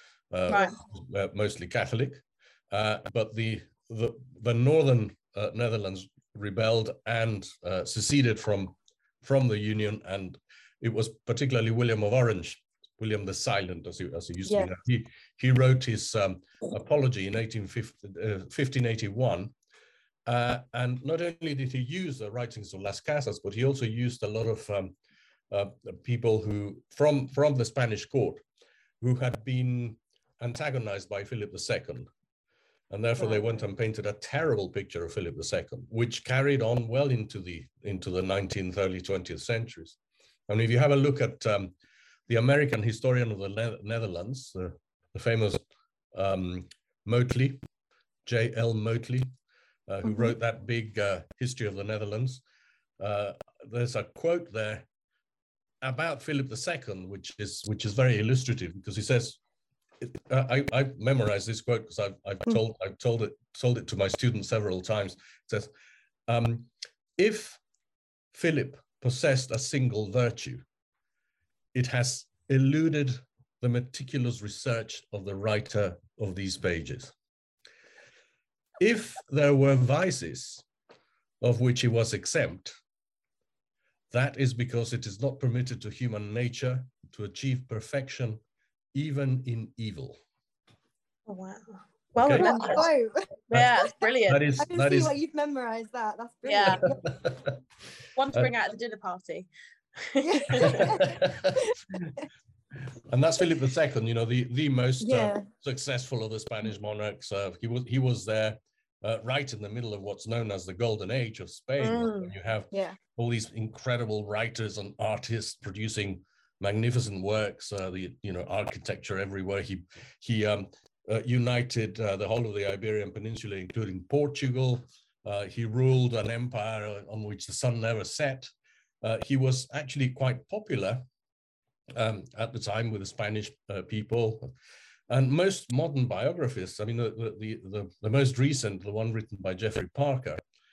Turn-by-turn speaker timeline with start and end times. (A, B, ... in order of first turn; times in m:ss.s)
0:00.3-0:19.5 A
0:00.5-0:00.8 B
0:14.4-0:14.7 C
0:20.3-0:25.0 A
0:25.5-0:28.4 A
0:29.0-0:32.1 A
0:32.9-0:41.8 A
0:42.3-0:47.6 A
0:48.3-0:49.3 A
0:49.9-0:52.4 A
0:50.0-0:50.3 C
0:53.0-0:54.9 A
0:55.8-0:59.4 A
1:00.0-1:05.7 A
1:06.3-1:07.6 A
1:08.3-1:10.6 A
1:11.7-1:17.1 A
1:18.8-1:20.6 A
1:21.4-1:22.8 A
1:24.1-1:28.4 A
1:28.9-1:30.2 A
1:31.3-1:32.9 B
1:32.2-1:32.8 A
1:32.4-1:33.3 C
1:33.5-1:34.4 B
1:33.5-1:35.1 A
1:34.6-1:37.0 C
1:36.5-1:36.8 B
1:36.7-1:37.6 A
1:38.2-1:40.9 B
1:40.2-1:41.7 C
1:40.5-1:42.2 A
1:43.1-2:08.5 A
1:45.0-1:45.5 C
1:51.8-1:52.3 B
1:52.7-1:53.0 C
2:09.0-2:11.0 A
2:11.9-2:14.5 A
2:15.1-2:20.4 A